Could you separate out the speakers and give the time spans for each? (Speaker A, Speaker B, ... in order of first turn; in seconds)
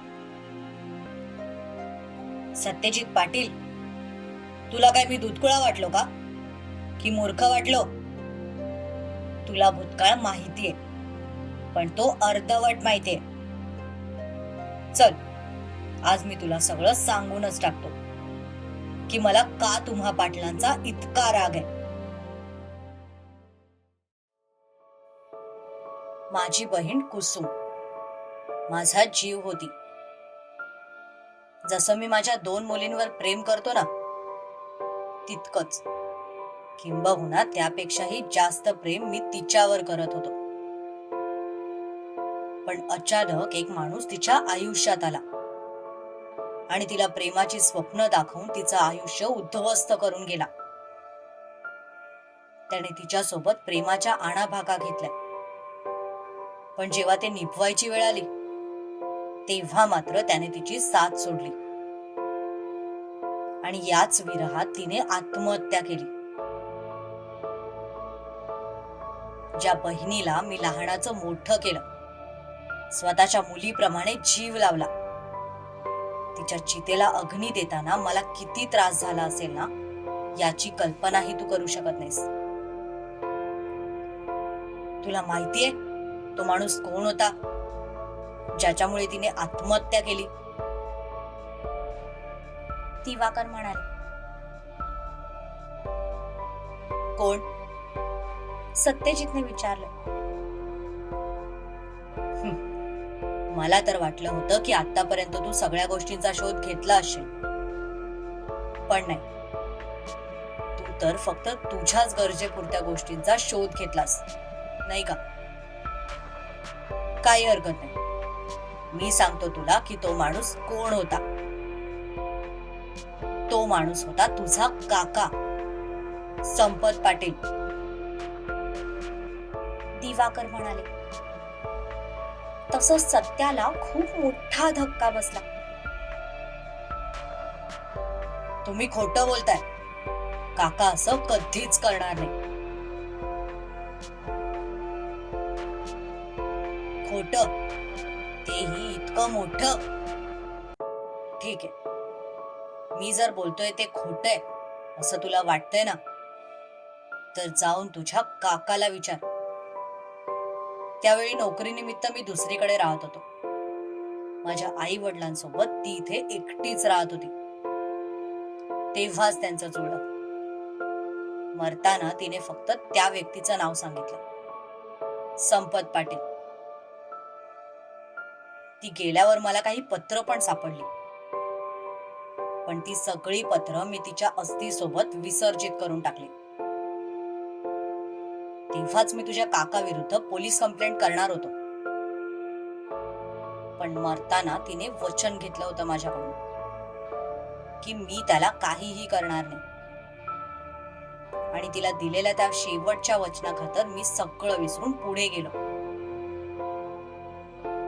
Speaker A: 2.5-3.5, 4.7-6.1, 7.0-7.8, 9.4-10.8, 11.7-13.1, 16.1-17.9, 19.1-21.0, 26.3-27.5, 28.7-29.7, 31.7-33.9, 35.3-35.8, 36.8-40.3, 42.6-45.2, 46.7-50.5, 52.7-55.1, 56.8-58.3, 59.5-61.5, 63.6-66.1, 69.6-71.8, 72.9-74.9, 76.3-79.7, 80.4-82.2, 85.0-85.8, 86.4-87.3, 88.6-90.3, 103.5-107.3, 108.9-109.2, 110.8-114.2, 114.8-115.2, 117.2-117.9, 118.9-121.2, 123.5-125.3, 126.5-127.3, 138.6-139.6, 140.6-142.3, 147.0-147.5, 148.4-149.8, 151.4-151.7, 152.9-154.4, 155.0-156.0, 157.3-159.2, 161.0-163.2, 164.4-167.3, 168.9-170.0, 171.5-174.2, 175.4-176.2, 178.8-180.9, 182.7-186.3, 188.7-191.5, 193.8-196.4, 197.8-199.6, 201.5-205.5
Speaker B: 12.5-13.2, 19.7-21.6, 26.4-27.3, 32.7-33.1, 37.6-38.3, 43.3-44.1, 44.7-45.0, 47.6-48.5, 49.0-49.5, 60.0-60.6, 64.1-65.7, 93.0-93.8, 98.7-99.9, 124.4-125.1, 130.0-130.8, 132.7-135.4, 202.9-203.3